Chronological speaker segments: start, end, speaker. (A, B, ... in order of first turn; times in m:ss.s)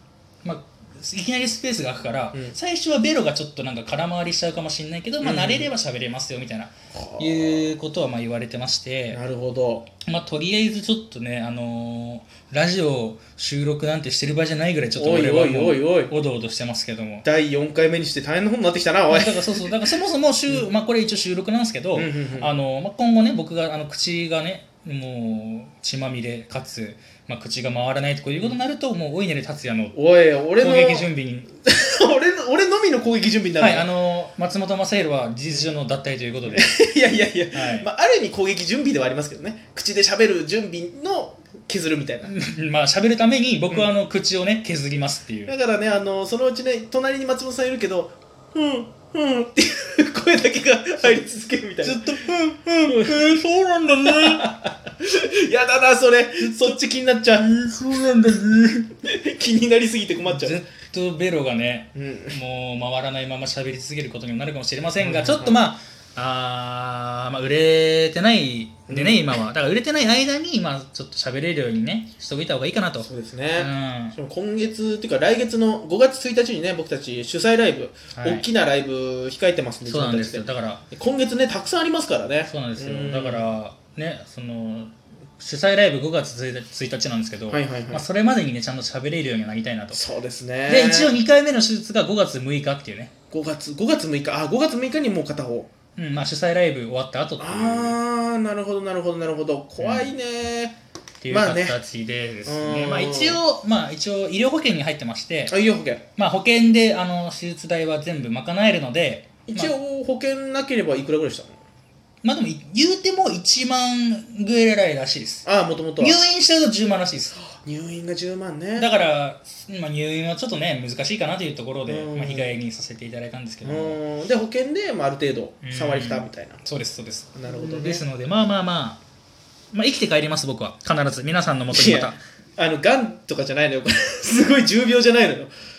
0:00.4-0:09.2 A
0:05.2-0:05.7 B
0:06.9-0:07.7 B
0:09.1-0:09.9 B
0:09.9-0:17.3 A
0:15.0-0:16.1 B
0:17.2-0:19.9 B
0:19.1-0:30.0 A
0:21.9-0:22.6 B
0:29.9-0:31.1 B
0:30.6-0:31.5 A
0:31.6-0:33.9 B
0:33.6-0:36.8 A
0:36.5-0:42.3 B
0:37.5-0:37.9 A
0:42.2-0:45.6 A
0:45.5-0:52.1 B
0:51.8-0:54.6 A
0:52.9-0:53.3 B
0:54.0-0:57.5 B
0:56.4-0:58.9 A
0:59.0-1:00.6 B
1:00.2-1:14.2 A
1:02.0-1:02.4 B
1:05.0-1:05.6 B
1:08.9-1:09.4 B
1:13.0-1:23.5 B
1:18.2-1:18.5 A
1:19.9-1:20.8 A
1:22.4-1:30.0 A
1:27.5-1:28.0 B
1:29.9-1:31.1 B
1:30.7-1:33.1 A
1:33.3-1:35.7 B
1:36.0-1:38.0 A
1:37.4-1:40.8 B
1:39.8-1:40.1 A
1:41.2-1:45.6 A
1:41.3-1:41.8 B
1:42.5-1:43.4 B
1:45.5-1:46.0 B
1:46.2-1:49.7 A
1:49.5-1:51.6 B
1:52.2-1:55.5 A
1:55.4-1:56.3 B
1:56.0-1:57.4 A
1:57.5-1:58.9 B
1:58.8-2:04.0 A
2:01.9-2:02.6 B
2:03.6-2:06.6 B
2:05.6-2:09.0 A
2:07.4-2:08.0 B
2:09.7-2:12.2 A
2:11.7-2:15.5 B